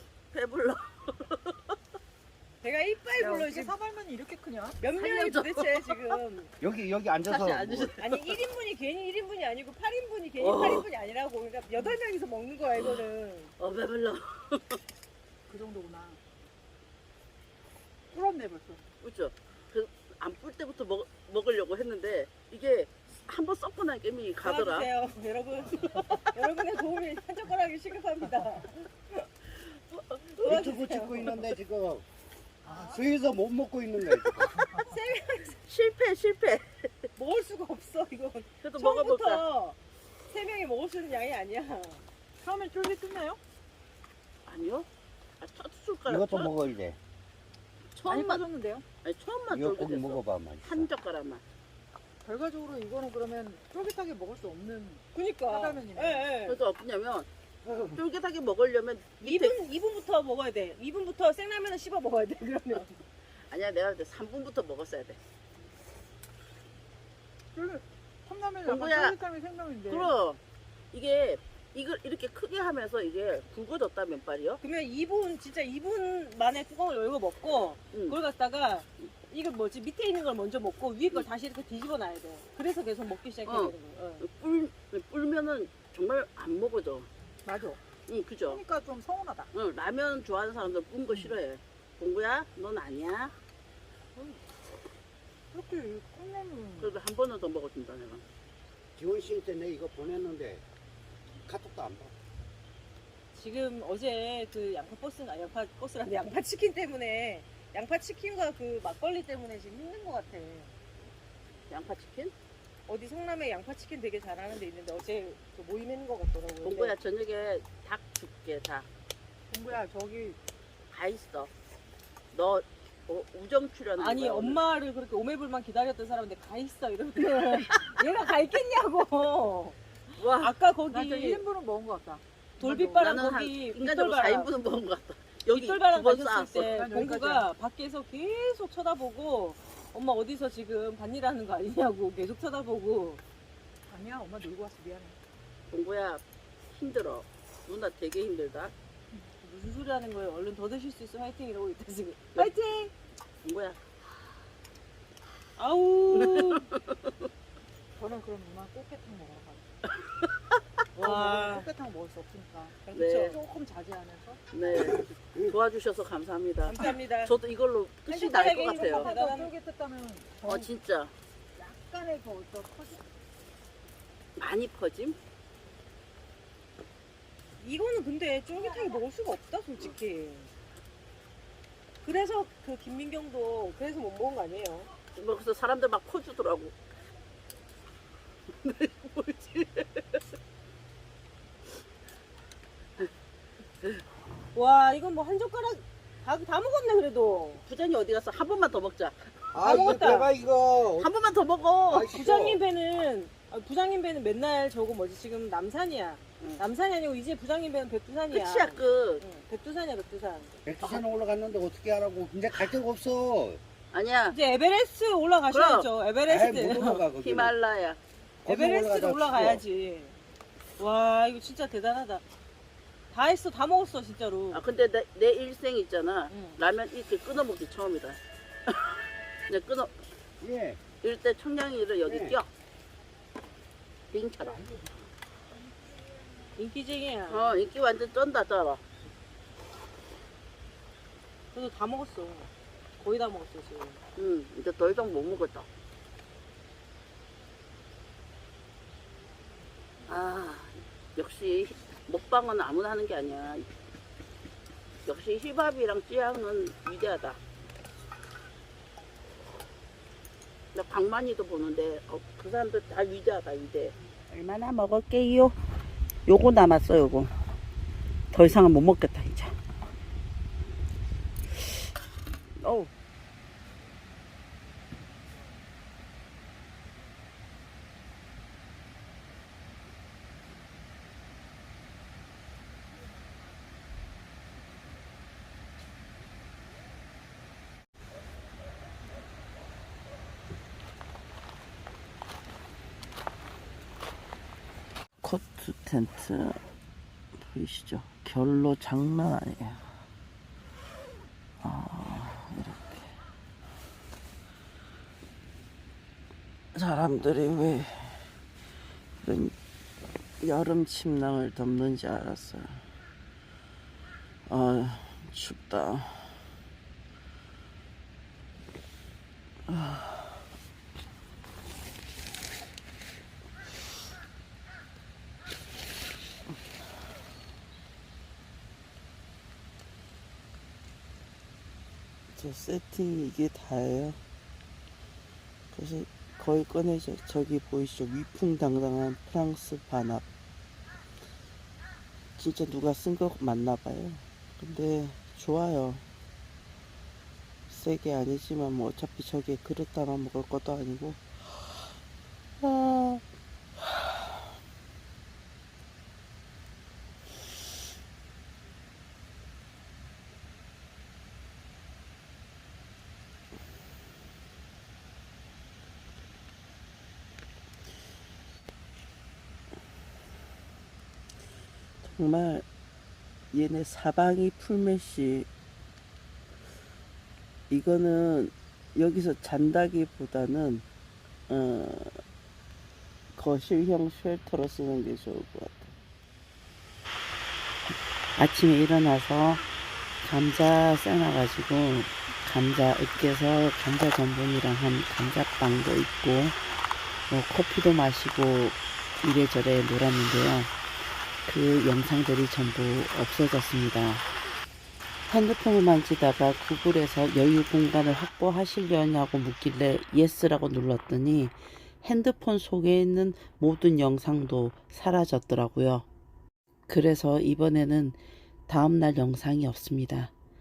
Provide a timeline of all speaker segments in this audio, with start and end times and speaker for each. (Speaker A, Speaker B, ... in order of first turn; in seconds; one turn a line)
Speaker A: 0.3-1.6
Speaker B: 2.6-3.7
Speaker C: 3.2-4.8
Speaker B: 4.8-6.5
Speaker A: 5.0-6.0
Speaker D: 6.6-7.9
Speaker A: 7.3-8.2
Speaker B: 8.0-13.5
Speaker A: 10.4-10.9
Speaker A: 13.6-14.8
Speaker C: 15.5-16.2
Speaker C: 18.1-18.8
Speaker A: 19.0-24.9
Speaker B: 24.4-31.5
Speaker D: 30.4-32.0
Speaker C: 32.7-33.0
Speaker D: 32.7-34.6
Speaker B: 34.7-35.6
Speaker A: 35.7-36.9
Speaker B: 37.2-39.8
Speaker A: 38.6-39.4
Speaker B: 40.3-42.0
Speaker C: 42.4-43.4
Speaker A: 44.5-44.9
Speaker A: 45.4-46.5
Speaker D: 46.1-47.0
Speaker A: 48.0-48.5
Speaker C: 48.1-48.9
Speaker A: 49.0-51.4
Speaker D: 49.5-50.9
Speaker C: 52.2-56.3
Speaker B: 55.1-56.6
Speaker A: 56.5-57.3
Speaker D: 57.6-58.0
Speaker A: 57.9-59.6
Speaker B: 59.2-63.0
Speaker A: 63.5-65.2
Speaker C: 67.5-70.1
Speaker A: 68.7-69.2
Speaker A: 69.9-70.4
Speaker A: 70.9-74.6
Speaker B: 74.6-84.2
Speaker A: 83.5-87.1
Speaker C: 87.5-87.8
Speaker A: 88.1-88.6
Speaker C: 88.5-89.5
Speaker A: 89.5-93.3
Speaker C: 94.2-94.4
Speaker C: 95.5-97.0
Speaker A: 96.8-98.2
Speaker D: 99.0-100.6
Speaker D: 101.5-102.2
Speaker B: 103.3-110.7
Speaker A: 111.7-112.3
Speaker B: 112.9-116.9
Speaker A: 116.6-118.9
Speaker C: 119.5-120.4
Speaker A: 120.9-121.5
Speaker A: 122.3-124.6
Speaker B: 124.0-131.4
Speaker A: 130.2-130.5
Speaker C: 130.9-133.2
Speaker B: 132.6-134.5
Speaker A: 133.0-136.7
Speaker B: 135.5-143.2
Speaker C: 136.6-137.5
Speaker C: 143.9-145.2
Speaker A: 145.7-148.7
Speaker B: 149.4-152.9
Speaker C: 152.4-152.9
Speaker A: 153.4-153.8
Speaker B: 155.6-156.7
Speaker A: 156.2-157.1
Speaker C: 158.0-159.8
Speaker B: 161.0-161.7
Speaker C: 161.0-164.4
Speaker B: 162.8-163.4
Speaker A: 162.9-163.4
Speaker A: 164.5-169.1
Speaker D: 164.8-165.4
Speaker B: 166.7-167.3
Speaker B: 168.1-169.5
Speaker C: 168.6-170.7
Speaker A: 170.5-171.1
Speaker C: 171.6-173.1
Speaker A: 174.4-175.2
Speaker B: 177.6-180.5
Speaker B: 182.0-184.9
Speaker A: 185.2-186.8
Speaker A: 188.6-190.2
Speaker B: 194.5-197.6
Speaker A: 197.7-200.0
Speaker D: 199.5-201.1
Speaker B: 199.6-200.3
Speaker A: 201.0-202.2
Speaker D: 201.9-202.6
Speaker B: 202.1-210.6
Speaker A: 208.3-209.2
Speaker D: 210.7-213.6
Speaker A: 213.9-214.4
Speaker B: 214.3-217.1
Speaker A: 215.5-215.9
Speaker D: 216.3-217.5
Speaker A: 217.2-218.0
Speaker D: 218.4-219.6
Speaker B: 218.5-220.2
Speaker B: 220.8-222.2
Speaker B: 223.1-224.6
Speaker A: 224.5-229.0
Speaker B: 226.3-226.6
Speaker A: 229.5-229.9
Speaker D: 230.4-230.8
Speaker A: 231.0-232.5
Speaker D: 232.1-232.3
Speaker A: 234.1-234.6
Speaker D: 234.4-234.9
Speaker B: 236.6-237.6
Speaker A: 237.3-238.8
Speaker B: 241.5-244.0
Speaker A: 244.2-245.7
Speaker A: 250.1-253.7
Speaker A: 255.1-257.4
Speaker A: 260.7-265.6
Speaker A: 266.3-267.3
Speaker A: 268.3-269.6
Speaker A: 272.6-272.9
Speaker A: 295.2-296.6
Speaker A: 297.5-299.8
Speaker A: 301.6-303.1
Speaker A: 306.8-308.2
Speaker A: 309.2-309.5
Speaker A: 310.4-312.8
Speaker A: 314.5-316.3
Speaker A: 319.7-320.3
Speaker A: 332.4-334.2
Speaker A: 335.7-340.2
Speaker A: 342.4-346.0
Speaker A: 347.7-351.8
Speaker A: 352.6-353.2
Speaker A: 372.0-372.6
Speaker A: 373.5-375.5
Speaker A: 377.7-380.9
Speaker A: 381.5-382.2
Speaker A: 383.4-385.9
Speaker A: 388.4-389.6
Speaker A: 390.2-396.6
Speaker A: 397.3-400.7
Speaker A: 401.5-404.2
Speaker A: 405.3-416.1
Speaker A: 416.9-420.3